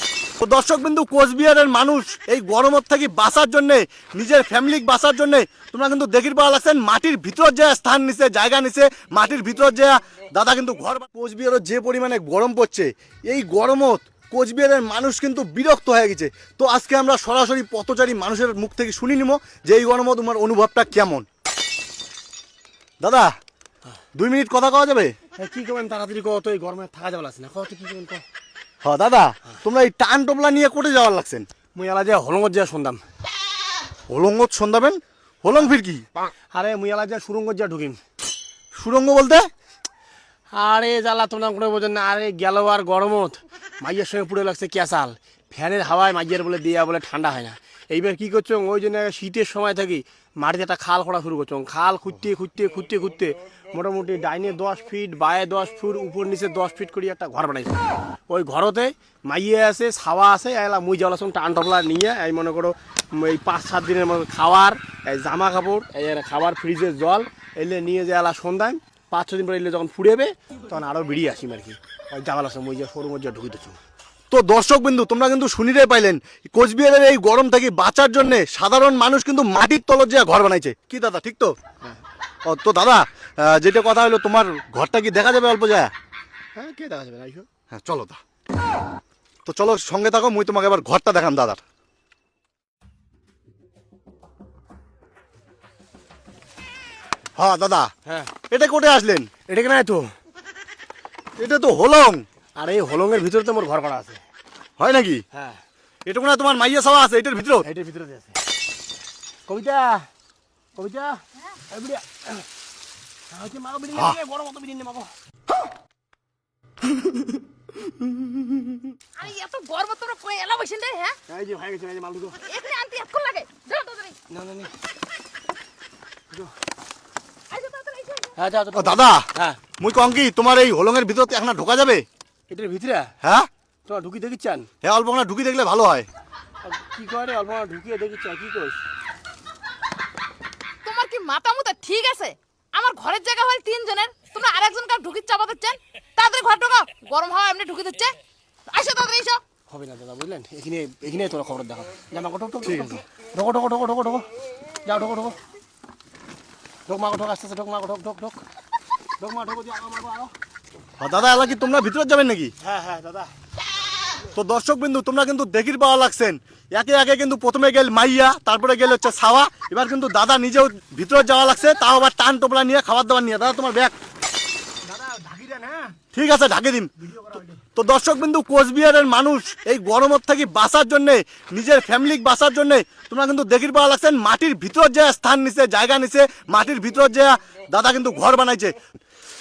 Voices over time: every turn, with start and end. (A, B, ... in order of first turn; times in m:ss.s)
0:00.4-0:21.2 A
0:23.0-0:23.3 A
0:24.1-0:25.2 A
0:25.4-0:28.2 B
0:28.8-0:31.5 A
0:31.7-0:33.0 B
0:34.1-0:36.0 A
0:36.5-0:38.0 B
0:38.7-0:39.5 A
0:40.5-1:13.8 B
1:14.3-1:21.5 A
1:22.5-1:25.9 A
1:26.5-1:27.5 B
1:27.7-1:28.2 A
1:29.4-1:31.6 A
1:37.4-1:37.9 A
1:38.0-1:38.3 B
1:38.5-1:39.3 A
1:39.5-1:40.1 B
1:41.4-1:42.2 A
1:42.6-1:44.2 B
1:44.8-1:45.2 A
1:45.3-1:45.6 B
1:46.0-1:47.6 A
1:47.6-1:48.4 B
1:49.5-1:50.1 B
1:50.8-1:52.4 B
1:53.3-1:55.1 B
1:59.2-2:01.2 C
2:01.3-2:02.4 B
2:02.4-2:04.2 C
2:04.3-2:04.7 B
2:07.5-2:08.3 C
2:08.4-2:09.6 B
2:08.7-2:09.2 A
2:09.8-2:12.0 A
2:12.5-2:13.1 B
2:13.2-2:13.5 A
2:13.8-2:14.7 B
2:14.8-2:16.1 A
2:16.6-2:18.8 B
2:20.8-2:29.4 C
2:29.7-2:34.3 B
2:32.6-2:33.0 A
2:34.8-2:35.4 B
2:36.9-2:38.4 B
2:39.2-2:40.3 B
2:41.0-2:42.5 A
2:42.6-2:43.3 B
2:44.3-2:53.9 A
2:54.8-2:55.9 B
2:56.1-2:56.9 A
2:57.0-2:57.6 B
2:57.6-3:08.8 A